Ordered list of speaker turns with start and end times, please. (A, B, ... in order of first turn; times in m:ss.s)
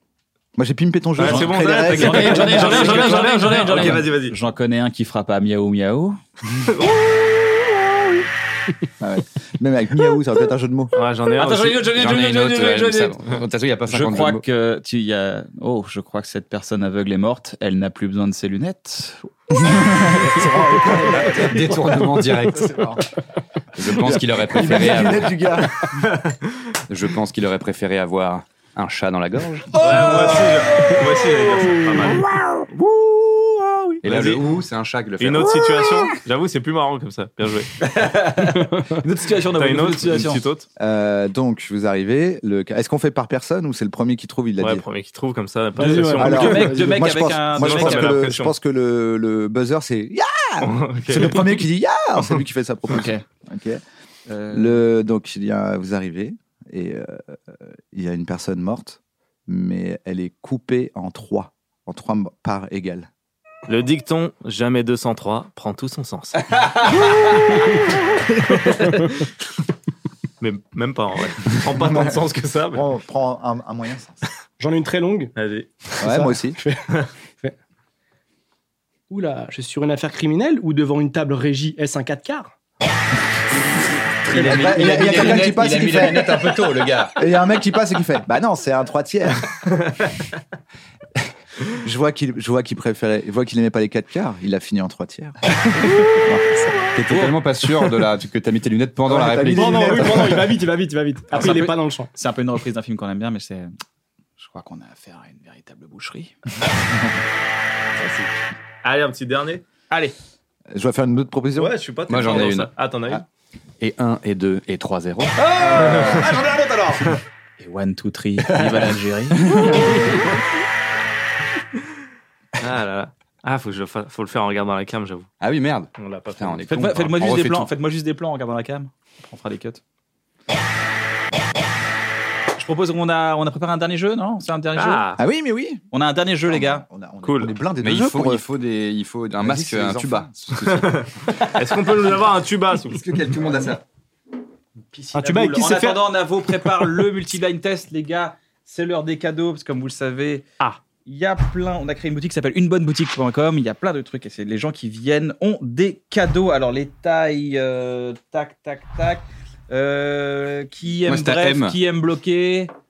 0:00.6-0:03.2 A
0:01.2-0:04.4 B
0:01.2-0:06.2 C
0:02.0-0:03.1 D
0:06.7-0:07.0 B
0:09.0-0:10.9 A
0:11.0-0:11.9 B
0:11.4-0:13.2 C
0:11.9-0:14.4 E
0:13.9-0:20.5 C
0:20.3-0:21.8 D
0:20.4-0:21.4 A
0:21.1-0:23.0 E
0:23.8-0:25.4 E
0:24.5-0:25.7 A
0:26.9-0:29.8 E
0:29.8-0:32.1 C
0:29.8-0:32.2 B
0:34.0-0:34.4 C
0:34.0-0:35.8 E
0:35.2-0:37.7 B
0:37.8-0:40.4 C
0:39.6-0:40.7 B
0:40.8-0:44.8 A
0:44.6-0:46.7 B
0:45.8-0:48.2 C
0:45.8-0:47.1 D
0:46.2-0:53.8 A
0:47.6-0:48.5 B
0:50.6-0:51.7 B
0:52.9-0:53.2 C
0:54.3-0:54.8 C
0:54.5-1:03.1 A
1:03.7-1:07.0 B
1:06.6-1:07.4 C
1:07.5-1:07.8 D
1:08.5-1:08.9 B
1:08.7-1:09.1 D
1:10.4-1:12.9 B
1:11.8-1:12.1 A
1:12.7-1:14.2 A
1:14.6-1:15.3 D
1:15.4-1:15.7 B
1:16.0-1:16.8 D
1:16.0-1:16.6 A
1:19.1-1:22.5 D
1:24.3-1:27.2 E
1:24.3-1:26.6 A
1:24.8-1:25.4 C
1:27.2-1:29.6 A
1:31.8-1:35.4 A
1:36.1-1:36.7 A
1:36.9-1:40.4 E
1:39.1-1:40.6 A
1:39.5-1:42.1 D
1:41.3-1:43.7 C
1:44.4-1:46.4 C
1:48.8-1:49.6 B
1:50.7-1:51.8 A
1:51.6-1:53.2 B
1:52.1-1:52.7 E
1:53.8-1:55.6 E
1:55.4-1:56.5 C
1:55.6-1:56.4 A
1:55.8-1:56.3 B
1:57.6-2:00.2 C
2:02.6-2:05.3 B
2:05.4-2:07.7 E
2:06.0-2:06.7 B
2:06.7-2:09.8 C
2:12.6-2:15.1 C
2:14.7-2:15.2 B
2:15.2-2:15.8 A
2:15.9-2:16.8 C
2:16.5-2:18.4 A
2:17.2-2:17.5 B
2:17.8-2:21.1 E
2:19.4-2:20.3 A
2:20.6-2:23.0 B
2:23.0-2:23.8 E
2:24.9-2:30.5 C
2:25.1-2:26.9 D
2:31.0-2:42.7 C
2:41.0-2:41.8 E